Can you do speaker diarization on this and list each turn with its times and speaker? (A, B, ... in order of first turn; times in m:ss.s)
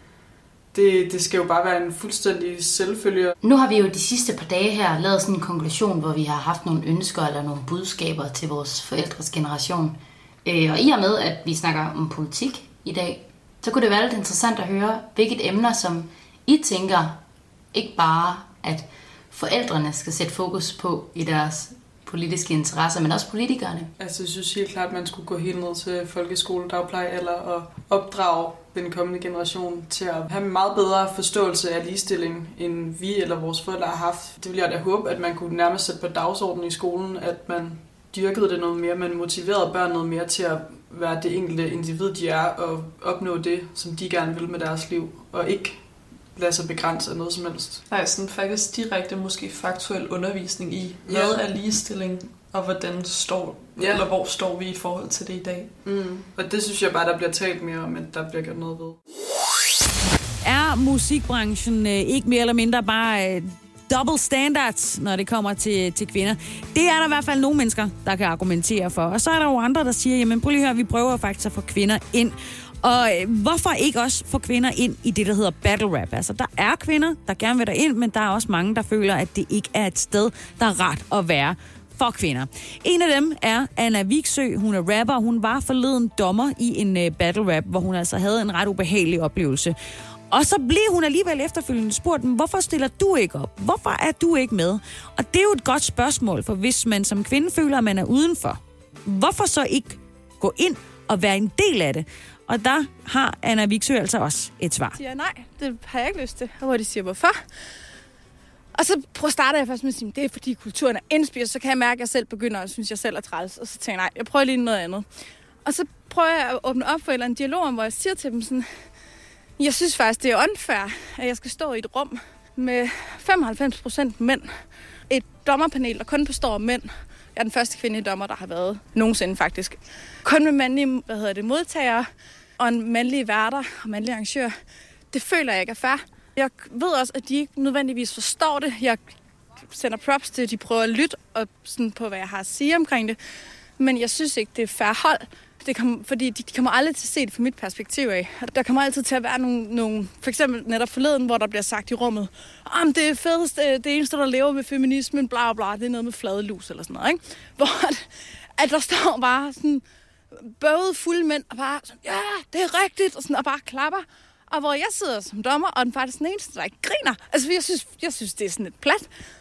0:00.7-0:03.4 A
0:03.4-0:17.2 B
0:17.7-0:23.9 B
0:24.0-0:47.8 A
0:47.9-0:55.8 C
0:51.1-0:51.4 A
0:53.8-0:54.1 A
0:55.8-0:59.0 A
1:00.4-1:29.8 D
1:30.3-1:45.0 D
1:45.0-1:47.4 E
1:48.8-1:55.1 E
1:55.6-1:58.7 E
1:59.6-2:04.5 E
2:05.1-2:12.1 E
2:12.6-2:14.5 E
2:15.1-2:19.0 E
2:19.6-2:23.2 E
2:23.8-2:39.8 E
2:40.5-2:49.1 E